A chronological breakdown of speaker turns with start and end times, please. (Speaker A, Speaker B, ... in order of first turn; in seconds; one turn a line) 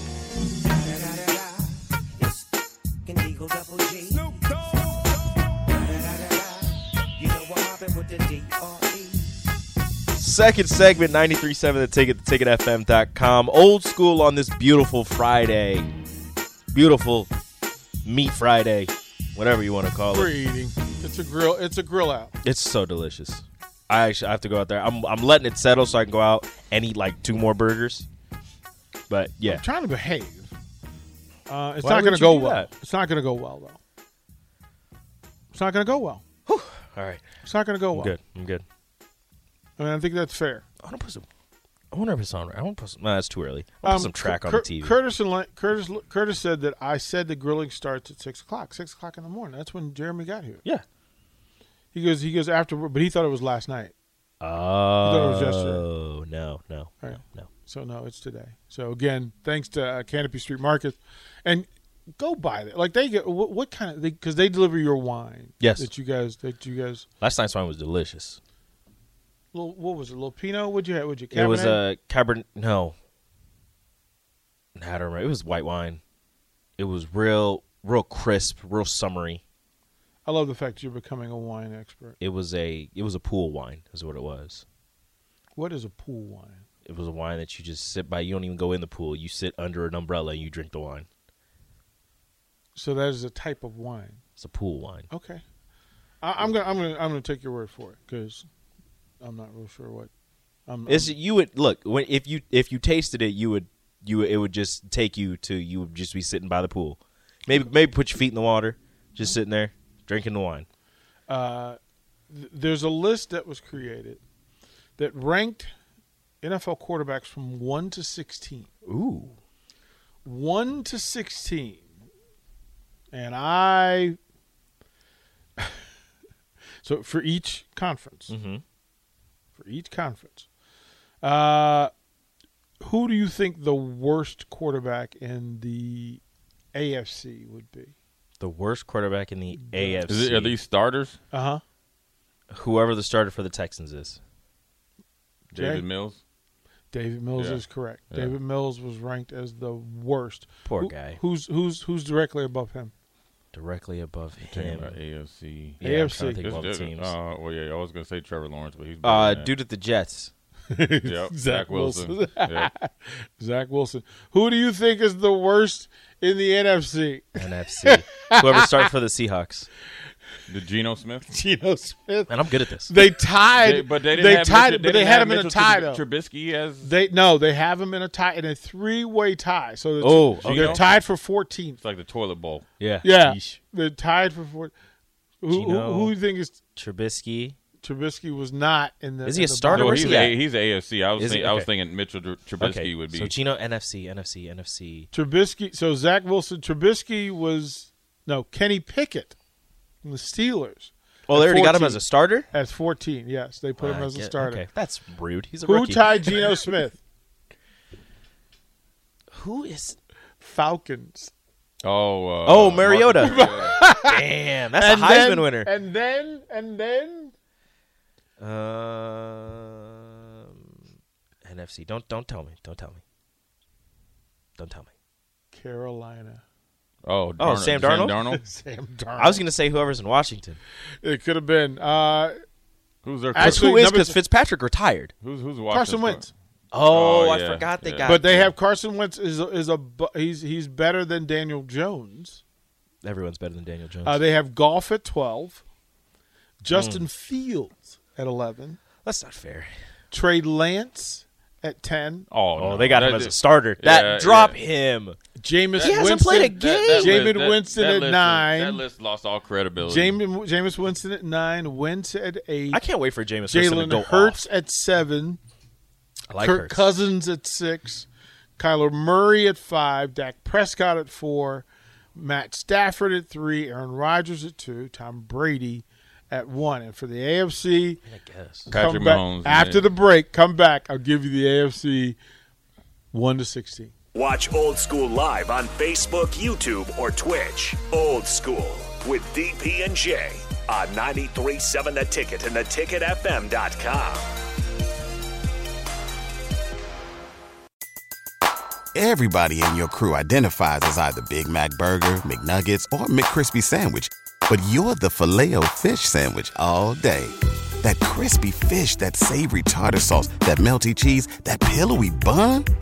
Speaker A: 0.8-1.7
Speaker A: 2.2-2.5
Speaker A: 3.0-9.4
Speaker B: 10.2-15.9
Speaker B: 16.7-17.3
Speaker B: 18.0-20.3
Speaker C: 20.1-22.3
Speaker B: 22.4-28.1
Speaker B: 29.1-29.6
Speaker C: 29.4-30.5
Speaker C: 31.5-33.8
Speaker B: 31.8-32.7
Speaker C: 35.5-36.2
Speaker B: 36.5-37.2
Speaker C: 37.4-38.1
Speaker B: 37.9-38.6
Speaker C: 39.8-40.6
Speaker B: 40.8-41.2
Speaker B: 41.9-45.0
Speaker C: 43.8-50.6
Speaker C: 51.9-53.9
Speaker B: 54.4-57.5
Speaker C: 55.0-55.8
Speaker C: 57.0-67.0
Speaker B: 65.6-65.9
Speaker B: 67.2-68.4
Speaker C: 69.5-71.8
Speaker B: 71.3-72.9
Speaker B: 74.8-76.0
Speaker B: 76.8-79.4
Speaker C: 80.2-82.2
Speaker B: 82.2-84.6
Speaker C: 85.5-86.6
Speaker B: 86.8-91.1
Speaker C: 92.7-94.2
Speaker B: 94.4-95.1
Speaker C: 95.1-95.4
Speaker C: 96.2-98.5
Speaker C: 99.2-100.1
Speaker C: 100.7-101.2
Speaker B: 100.8-110.7
Speaker C: 111.3-111.8
Speaker C: 112.3-114.2
Speaker C: 115.0-115.7
Speaker C: 116.4-118.7
Speaker B: 118.8-119.3
Speaker C: 120.2-121.9
Speaker C: 123.1-124.2
Speaker C: 125.6-125.8
Speaker C: 126.8-128.3
Speaker B: 128.3-128.6
Speaker C: 129.5-130.5
Speaker C: 131.2-131.9
Speaker C: 132.8-136.2
Speaker C: 136.7-137.9
Speaker B: 138.4-140.6
Speaker C: 139.7-140.0
Speaker D: 140.1-141.2
Speaker C: 141.3-141.6
Speaker B: 142.5-144.2
Speaker D: 145.5-146.2
Speaker C: 145.5-145.8
Speaker C: 146.9-152.9
Speaker D: 147.3-148.3
Speaker B: 150.6-151.2
Speaker B: 153.5-155.0
Speaker D: 154.4-159.5
Speaker B: 155.8-157.1
Speaker C: 155.8-156.4
Speaker B: 159.0-160.3
Speaker C: 160.7-168.9
Speaker D: 161.0-162.7
Speaker B: 167.3-169.7
Speaker D: 170.5-171.3
Speaker C: 171.3-176.0
Speaker B: 172.3-172.9
Speaker D: 173.6-176.9
Speaker C: 176.8-181.8
Speaker B: 180.0-180.8
Speaker D: 180.4-180.8
Speaker D: 181.8-182.6
Speaker B: 182.8-183.6
Speaker C: 183.0-184.7
Speaker C: 185.4-186.6
Speaker B: 185.5-186.1
Speaker B: 186.7-187.6
Speaker C: 187.8-190.3
Speaker B: 189.2-190.4
Speaker D: 189.7-193.3
Speaker B: 191.2-191.7
Speaker B: 192.6-195.1
Speaker C: 195.1-199.3
Speaker C: 200.0-204.6
Speaker B: 201.3-202.5
Speaker B: 203.8-206.6
Speaker C: 205.6-207.0
Speaker B: 209.3-210.0
Speaker C: 210.4-211.3
Speaker D: 211.8-213.8
Speaker B: 212.4-215.7
Speaker C: 213.2-217.3
Speaker B: 218.4-220.8
Speaker B: 221.4-223.0
Speaker B: 224.6-224.9
Speaker C: 225.5-226.4
Speaker D: 227.1-228.4
Speaker B: 227.4-228.2
Speaker C: 228.0-229.4
Speaker B: 229.2-230.6
Speaker C: 231.0-232.4
Speaker D: 233.0-233.7
Speaker C: 233.3-234.2
Speaker B: 233.3-235.1
Speaker D: 235.2-236.3
Speaker C: 235.7-236.3
Speaker B: 236.7-238.5
Speaker D: 236.8-238.5
Speaker C: 238.0-242.4
Speaker B: 243.0-244.2
Speaker C: 244.0-245.6
Speaker C: 246.6-248.8
Speaker B: 246.7-247.0
Speaker B: 249.0-249.7
Speaker C: 250.1-252.3
Speaker D: 252.3-254.6
Speaker B: 252.6-255.2
Speaker C: 255.4-258.8
Speaker D: 255.7-260.2
Speaker B: 255.8-257.3
Speaker C: 259.8-262.8
Speaker B: 262.7-264.4
Speaker C: 263.5-265.4
Speaker B: 266.3-266.9
Speaker C: 266.4-278.0
Speaker B: 278.0-278.7
Speaker D: 278.7-279.8
Speaker C: 278.7-282.2
Speaker C: 283.1-283.9
Speaker E: 284.4-285.4
Speaker E: 286.0-294.0
Speaker F: 298.9-312.7